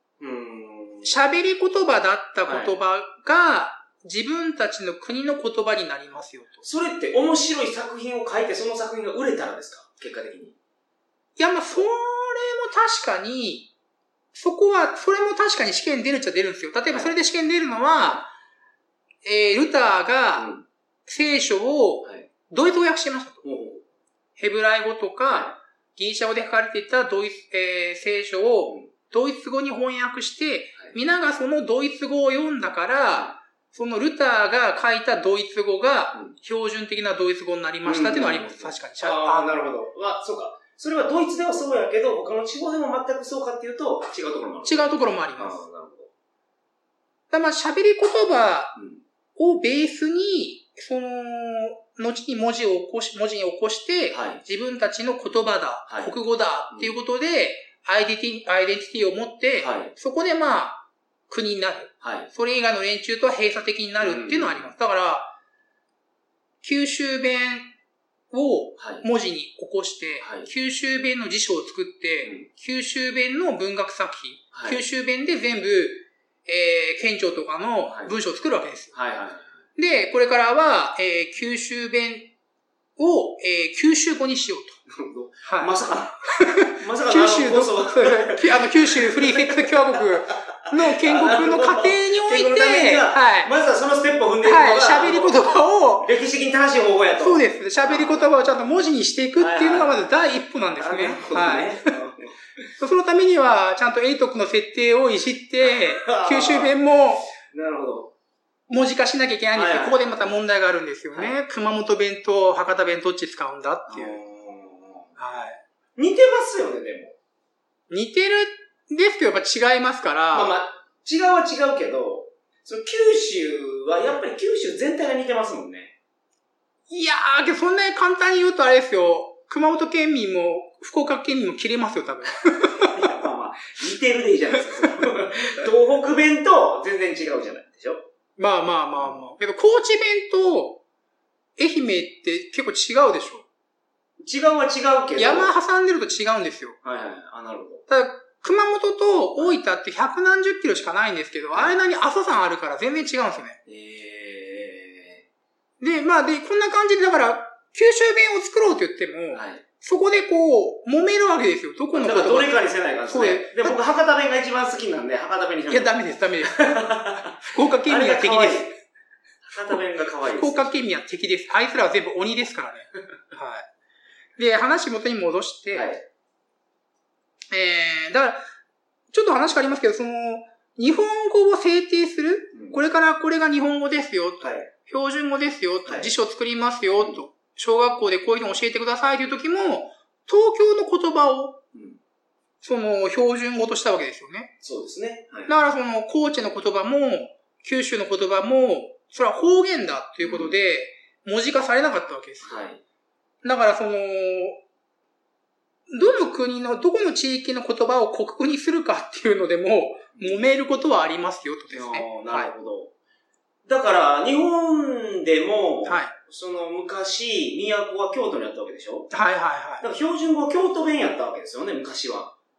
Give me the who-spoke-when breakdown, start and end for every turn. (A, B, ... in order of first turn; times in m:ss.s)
0:00.2-0:01.2 A
0:01.0-0:06.6 B
0:02.4-0:02.8 A
0:06.6-0:10.6 A
0:11.4-0:13.7 B
0:14.3-0:18.3 B
0:19.2-0:20.5 B
0:20.4-0:20.6 A
0:21.1-0:23.4 B
0:23.4-0:23.8 A
0:24.4-0:39.7 B
0:25.3-0:25.5 A
0:33.1-0:33.4 A
0:37.8-0:46.1 A
0:44.6-0:45.6 B
0:47.3-0:48.8 B
0:48.8-0:49.0 A
0:49.4-1:05.4 B
0:54.1-0:54.4 A
0:55.9-0:56.2 A
0:59.6-0:59.9 A
1:02.0-1:02.3 A
1:04.0-1:04.7 A
1:06.6-1:07.7 B
1:08.3-1:18.9 B
1:08.8-1:09.0 A
1:10.2-1:10.5 A
1:14.5-1:14.8 A
1:17.8-1:18.1 A
1:18.9-1:19.6 A
1:19.8-1:22.3 B
1:23.0-1:24.8 B
1:24.9-1:35.4 A
1:25.4-1:25.7 B
1:26.3-1:33.5 B
1:34.4-1:36.1 B
1:36.0-1:38.4 A
1:37.2-1:42.0 B
1:39.4-1:40.0 A
1:40.8-1:42.7 A
1:42.8-1:47.3 B
1:45.6-1:46.8 A
1:47.5-1:48.1 A
1:48.7-1:54.2 B
1:49.5-1:50.3 A
1:53.9-1:55.2 A
1:55.2-1:55.6 B
1:56.0-1:57.2 A
1:57.9-2:00.5 B
2:00.3-2:05.9 A
2:06.9-2:13.1 B
2:12.7-2:18.0 A
2:14.8-2:15.5 B
2:18.4-2:20.8 B
2:21.6-2:23.5 B
2:24.2-2:25.5 A
2:25.2-2:26.8 B
2:26.8-2:27.8 A
2:27.9-2:33.6 B
2:33.7-2:35.2 A
2:35.8-2:42.6 B
2:39.3-2:39.6 A
2:41.9-2:48.7 A
2:43.1-2:43.8 B
2:45.7-2:48.8 B
2:49.4-2:50.8 A
2:49.7-2:53.7 B
2:54.4-2:55.9 B
2:55.7-2:56.0 A
2:57.5-2:58.5 B
2:59.1-3:11.6 B
3:02.5-3:02.8 A
3:04.4-3:04.7 A
3:05.9-3:06.1 A
3:11.7-3:12.0 A
3:12.6-3:14.5 B
3:14.6-3:15.5 A
3:15.5-3:22.6 B
3:20.2-3:20.6 A
3:22.4-3:22.8 A
3:23.4-3:24.6 B
3:25.9-3:32.5 B
3:31.7-3:32.9 A
3:33.7-3:39.1 A
3:35.9-3:36.1 B
3:39.1-3:39.8 B
3:39.8-3:42.3 A